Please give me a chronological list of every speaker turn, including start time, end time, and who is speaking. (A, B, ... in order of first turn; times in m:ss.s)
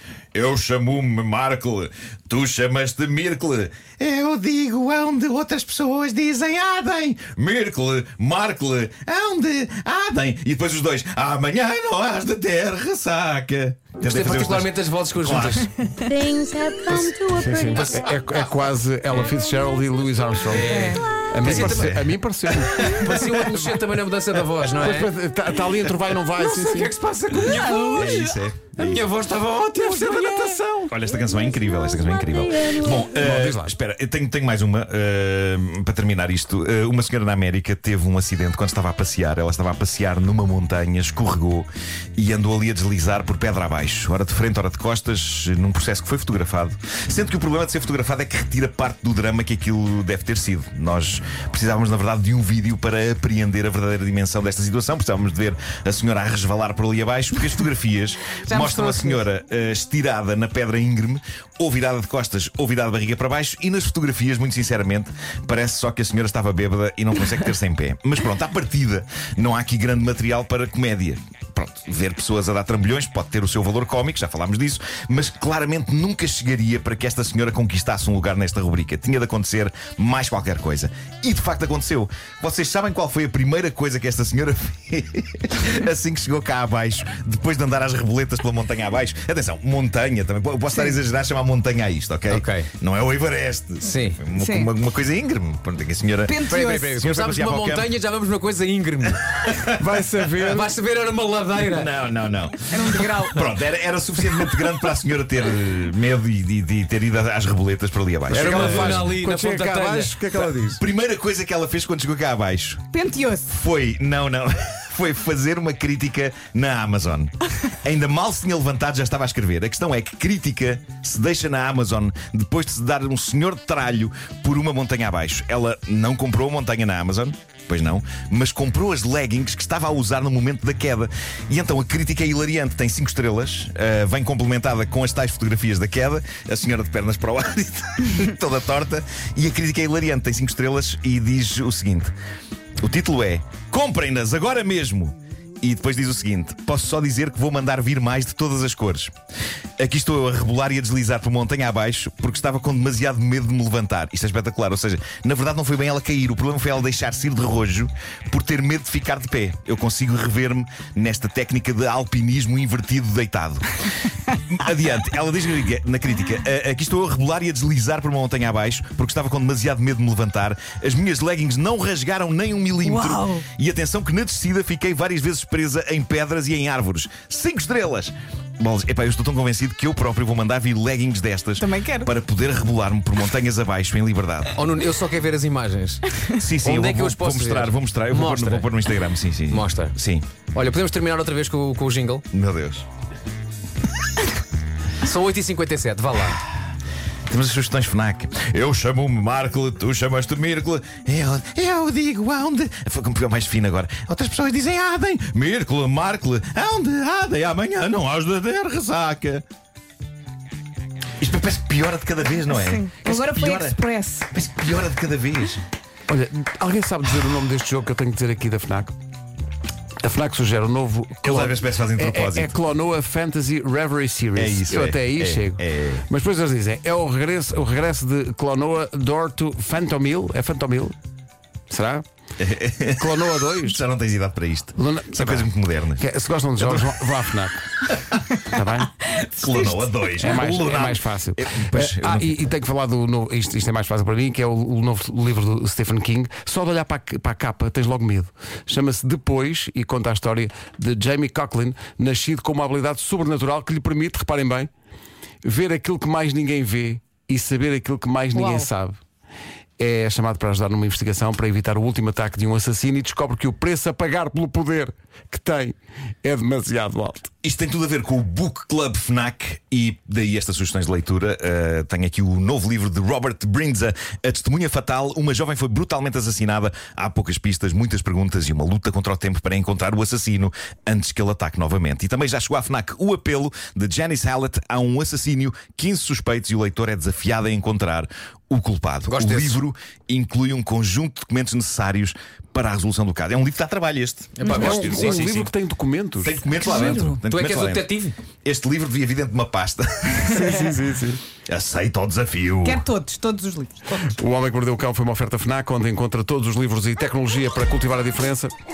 0:00.3-0:15.9 A
0:14.0-0:15.7 B
0:16.0-0:18.0 C
0:16.8-0:17.2 B
0:17.2-0:23.6 D
0:17.7-0:18.2 B
0:20.5-0:21.9 B
0:20.7-0:21.0 E
0:21.4-0:23.4 A
0:23.0-0:25.1 B
0:24.8-0:26.9 D
0:26.4-0:30.9 B
0:27.8-0:28.2 C
0:27.8-0:29.0 A
0:30.0-0:30.6 D
0:30.9-1:37.9 A
0:31.1-0:33.0 C
0:33.2-0:33.6 B
0:58.4-0:59.2 E
1:32.3-1:32.7 B
1:33.8-1:34.2 B
1:34.3-1:34.7 E
1:36.2-1:36.9 E
1:36.4-1:39.6 B
1:39.4-1:40.0 A
1:39.7-1:40.7 D
1:40.4-1:41.9 B
1:41.6-1:49.1 A
1:42.7-1:43.5 E
1:48.3-1:50.8 D
1:48.3-1:50.2 B
1:50.3-1:52.9 A
1:52.9-1:53.6 E
1:53.5-2:22.1 A
2:22.8-2:29.1 A
2:29.8-2:43.9 A
2:44.5-3:04.6 A
2:52.8-2:53.4 E
3:01.6-3:02.1 E
3:04.6-3:08.7 B
3:06.3-3:10.2 A
3:09.5-3:09.9 B
3:10.5-3:12.2 B
3:12.3-3:12.8 A
3:15.0-3:16.4 B
3:17.3-3:29.4 A
3:31.2-3:33.8 A
3:32.5-3:34.3 E
3:34.3-3:35.6 A
3:36.1-3:39.0 D
3:40.0-3:50.9 D
3:41.2-3:42.5 A
3:44.4-3:46.0 A
3:51.7-3:52.0 D
3:52.4-3:56.1 A
3:53.0-3:53.8 D
3:54.8-3:57.6 D
3:56.6-3:57.0 A
3:58.3-3:59.0 D
3:59.0-4:02.4 A
4:00.2-4:14.7 D
4:15.4-4:19.0 D
4:18.3-4:18.7 E
4:19.8-4:27.3 D
4:27.4-4:55.5 A
4:49.1-4:49.6 B
4:54.4-4:55.3 B
4:54.5-4:56.4 D
4:56.2-4:57.9 A
4:56.6-4:57.2 E
4:56.9-4:58.2 B
4:58.4-5:00.6 A
5:00.3-5:01.2 D
5:01.4-5:02.8 A
5:02.6-5:04.1 E
5:04.0-5:08.5 D